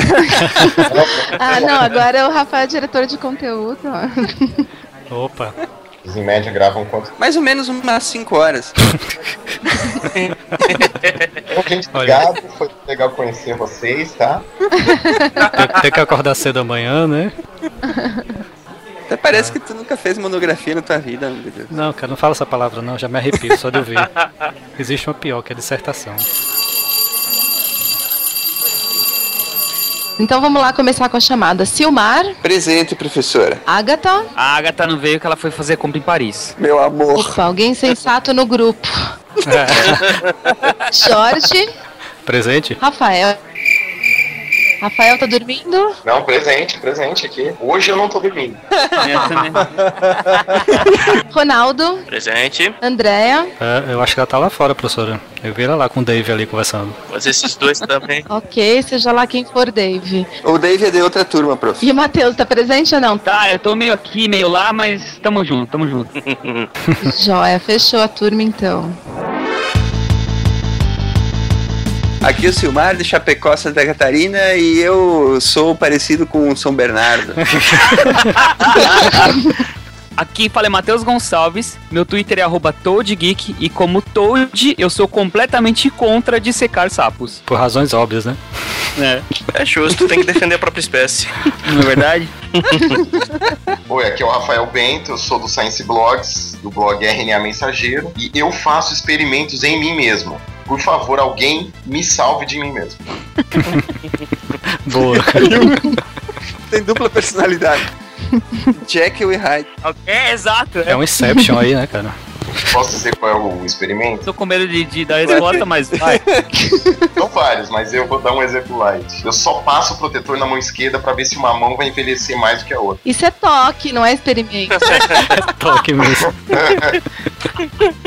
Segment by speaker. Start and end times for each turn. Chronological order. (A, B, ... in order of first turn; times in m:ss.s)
0:00.8-0:01.7 A
0:01.4-0:04.6 B
0:05.1-0:05.5 C
0:06.0-0:07.1 A
0:07.2-0:08.7 D
0:10.1-0:11.4 E
0:11.5-0:14.4 A
0:11.9-0:12.2 C
0:14.8-0:15.3 B
0:15.4-0:15.7 E
0:15.6-0:17.3 C
0:17.9-0:18.2 B
0:19.1-0:21.7 D
0:19.3-0:19.6 C
0:21.7-0:24.1 C
0:24.8-0:26.2 C
0:30.2-0:32.4 B
0:32.4-0:33.6 D
0:33.7-0:34.3 B
0:34.4-0:36.5 F
0:36.6-0:37.3 D
0:37.1-0:39.0 B
0:39.4-0:40.1 C
0:40.9-0:41.7 B
0:42.2-0:42.8 C
0:42.8-0:43.4 B
0:44.8-0:46.0 B
0:46.0-0:48.6 A
0:49.0-0:49.6 F
0:51.3-0:52.0 B
0:52.1-0:52.7 E
0:52.8-0:53.5 B
0:53.6-0:56.9 C
0:57.1-0:58.2 E
0:58.3-1:00.3 B
1:00.4-1:01.8 D
1:01.8-1:03.2 B
1:03.2-1:06.1 F
1:06.2-1:06.7 E
1:07.0-1:09.0 B
1:12.2-1:17.6 D
1:18.6-1:19.3 F
1:20.2-1:27.4 F
1:27.5-1:28.4 C
1:29.0-1:29.2 F
1:29.5-1:31.5 E
1:31.7-1:32.3 F
1:33.9-1:43.0 A
1:44.8-1:45.6 C
1:45.4-1:45.8 D
1:46.7-1:47.9 D
1:48.7-1:49.7 D
1:49.8-1:51.0 F
1:50.9-1:52.1 C
1:52.7-1:54.2 A
1:54.2-1:56.2 F
1:55.2-1:56.4 D
1:57.2-2:03.0 A
2:03.0-2:05.1 B
2:05.3-2:06.4 C
2:06.5-2:07.0 A